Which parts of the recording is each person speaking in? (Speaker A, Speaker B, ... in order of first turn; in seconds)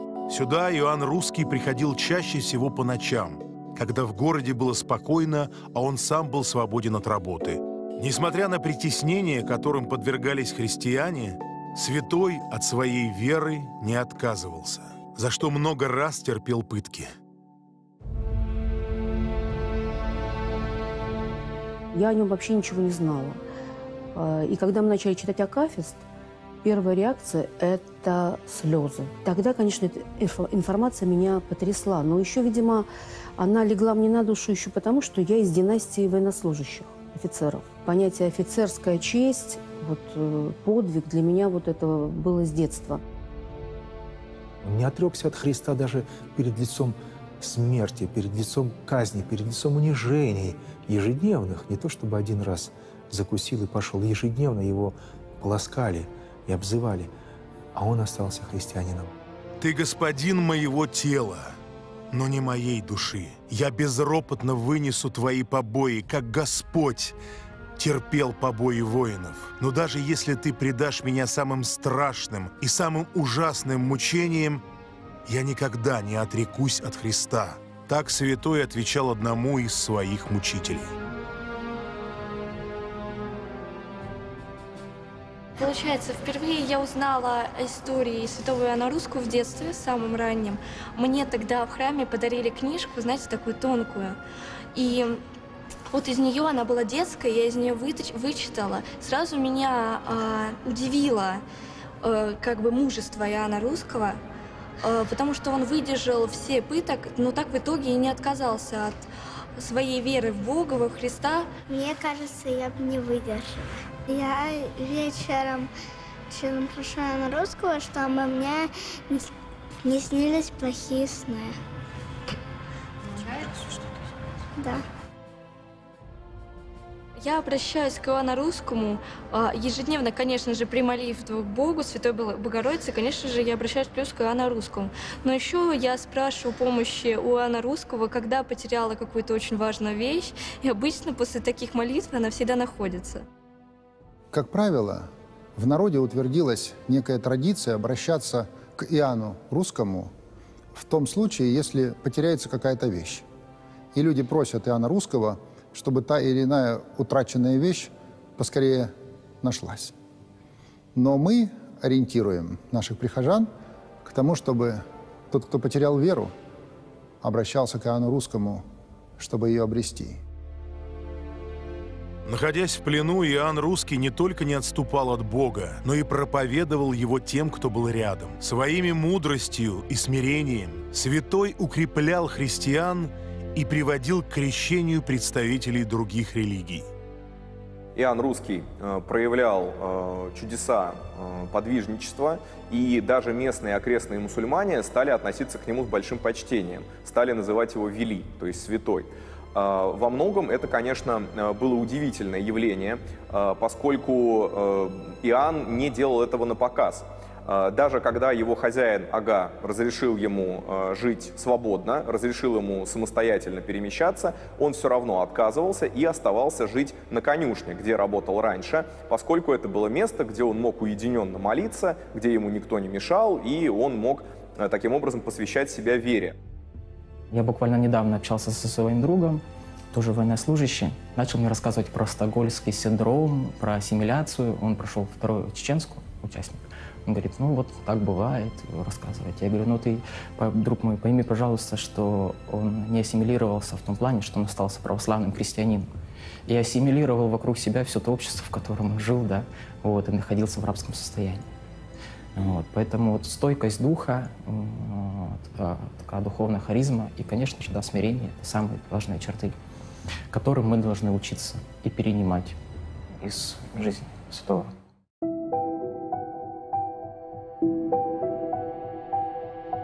Speaker A: 0.3-17.1, 59.6-61.6, 62.1-67.2, 67.8-74.6, 75.3-80.9, 172.2-186.9
Speaker B: 21.9-23.4, 24.1-26.0, 26.6-43.0
Speaker C: 44.6-57.1, 57.7-59.1
Speaker D: 85.6-94.2, 94.7-95.2, 95.9-101.4, 102.0-104.2, 104.8-111.5, 127.2-143.2
Speaker E: 111.7-115.7, 116.3-119.3, 119.8-121.5, 124.6-124.8
Speaker F: 144.3-150.1, 150.7-153.2, 153.9-159.9, 160.9-163.5, 164.0-166.3, 167.2-168.6, 169.2-170.2
Speaker G: 187.9-226.4
Speaker H: 227.3-245.9, 246.5-251.5, 252.3-259.5, 260.3-262.6, 263.2-264.7